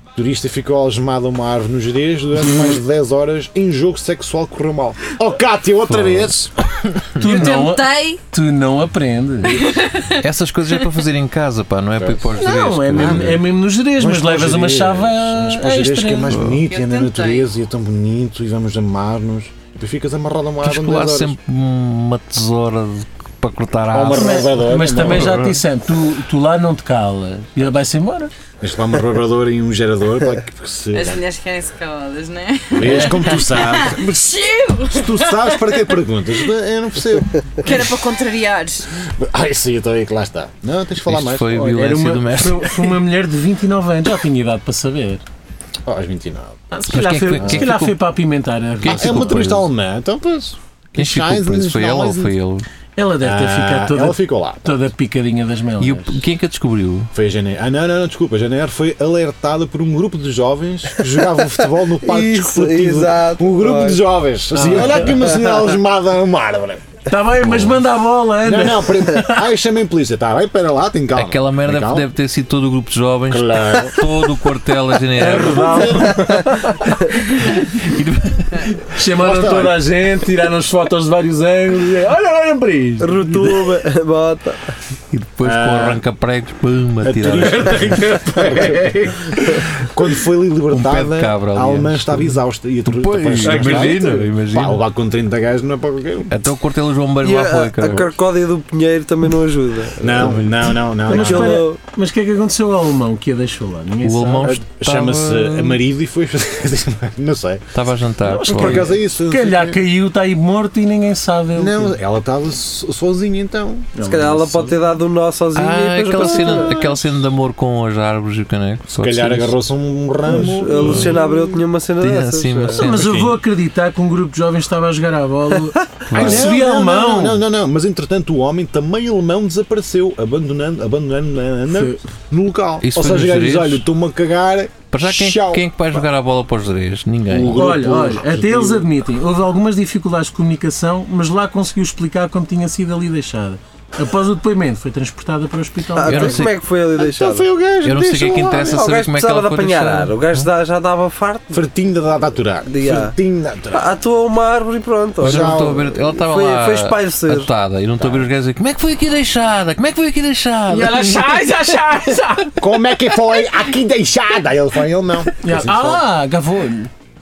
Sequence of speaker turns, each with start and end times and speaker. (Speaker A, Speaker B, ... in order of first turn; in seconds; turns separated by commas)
Speaker A: 0.1-6.5, Speaker B: 5.9-7.5, Speaker C: 7.2-8.2, Speaker D: 7.2-9.7, Speaker C: 9.4-10.2, Speaker B: 10.1-13.4, Speaker A: 12.0-21.4, Speaker D: 12.4-16.4, Speaker B: 16.3-16.6, Speaker C: 16.6-17.5, Speaker B: 20.6-25.6, Speaker A: 23.9-25.5, Speaker D: 24.1-28.3, Speaker A: 28.6-31.2, Speaker C: 30.9-36.0, Speaker A: 32.7-34.3, Speaker D: 32.9-33.1, Speaker A: 34.9-38.0, Speaker C: 37.6-38.9, Speaker A: 39.0-41.6, Speaker B: 41.0-43.0, Speaker D: 41.5-45.2, Speaker A: 45.8-46.6, Speaker D: 46.7-49.4, Speaker B: 46.9-48.0, Speaker A: 47.4-47.7, Speaker B: 48.8-49.7, Speaker A: 48.8-52.3, Speaker B: 51.0-52.6, Speaker D: 53.0-56.2, Speaker A: 53.2-54.9, Speaker B: 55.8-57.1, Speaker A: 57.1-67.8, Speaker E: 61.0-64.0, Speaker D: 64.5-65.3, Speaker D: 67.1-69.5, Speaker A: 68.4-72.1, Speaker B: 71.2-76.2, Speaker A: 73.3-74.1, Speaker D: 75.2-76.9, Speaker A: 75.2-76.4, Speaker E: 75.3-76.6, Speaker B: 77.4-78.7, Speaker D: 78.8-83.8, Speaker A: 79.1-79.8, Speaker E: 83.0-84.7, Speaker B: 85.1-88.1, Speaker A: 85.4-86.0, Speaker A: 87.0-96.3, Speaker D: 88.1-88.5, Speaker B: 90.7-94.8, Speaker E: 93.4-94.2, Speaker D: 93.6-94.2, Speaker B: 96.3-98.1, Speaker E: 97.2-100.5, Speaker A: 100.0-101.6, Speaker B: 100.2-100.7, Speaker E: 101.0-101.8, Speaker D: 101.0-104.6, Speaker B: 104.0-105.8, Speaker A: 104.4-107.6, Speaker B: 107.7-108.9, Speaker D: 108.2-112.0, Speaker A: 108.4-109.8, Speaker A: 111.5-114.6, Speaker D: 114.0-114.7, Speaker E: 114.0-116.7, Speaker B: 115.5-119.5, Speaker A: 116.2-117.1, Speaker A: 118.9-121.4, Speaker E: 120.2-122.9, Speaker D: 120.3-120.5, Speaker B: 120.8-121.2, Speaker B: 122.0-123.4, Speaker D: 122.7-127.4, Speaker A: 122.9-123.3, Speaker B: 126.1-126.5, Speaker A: 126.1-136.0, Speaker D: 131.7-132.0, Speaker B: 132.8-133.8, Speaker B: 134.9-137.6, Speaker A: 137.3-138.9, Speaker D: 137.6-146.4, Speaker E: 145.9-147.5, Speaker B: 146.0-146.6, Speaker A: 147.0-148.8, Speaker B: 147.8-150.4, Speaker E: 148.6-151.7, Speaker A: 151.5-153.9, Speaker E: 152.6-153.2, Speaker E: 153.7-157.5, Speaker A: 155.2-156.0, Speaker B: 155.2-161.4, Speaker A: 158.0-158.3, Speaker D: 160.7-162.6, Speaker A: 162.6-166.1, Speaker D: 165.4-166.9